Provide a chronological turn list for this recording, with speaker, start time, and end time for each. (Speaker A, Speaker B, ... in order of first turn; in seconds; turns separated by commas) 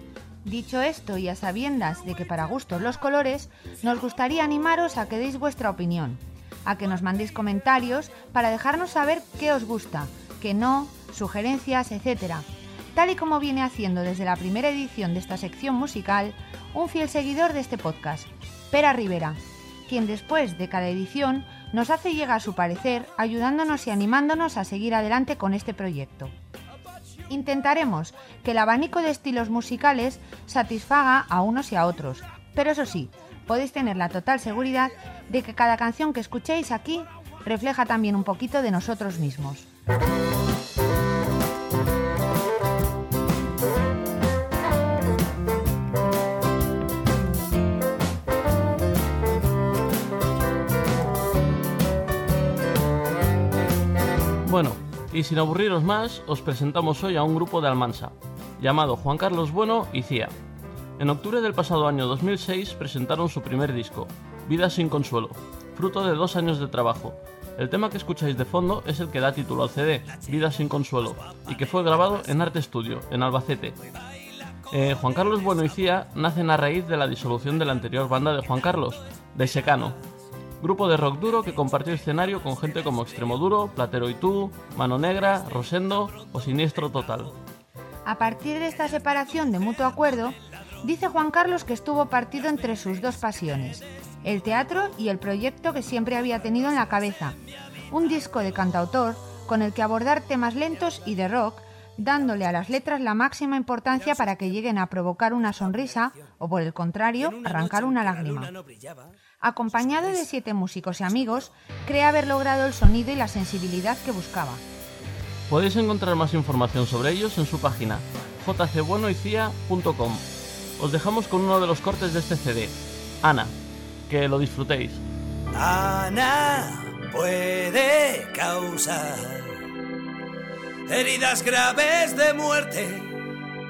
Speaker A: 0.5-26.3, Speaker A: 27.3-39.7, Speaker B: 54.4-60.4, Speaker B: 61.0-73.8, Speaker B: 74.7-80.0, Speaker B: 80.6-87.4, Speaker A: 88.1-97.4, Speaker A: 97.9-108.5, Speaker C: 103.9-104.6, Speaker C: 105.6-106.3, Speaker C: 107.2-109.2, Speaker A: 109.4-114.6, Speaker C: 109.7-110.3, Speaker C: 111.0-111.5, Speaker B: 115.5-120.3, Speaker B: 120.8-123.5, Speaker B: 124.1-125.0, Speaker C: 125.5-129.6, Speaker C: 130.9-133.1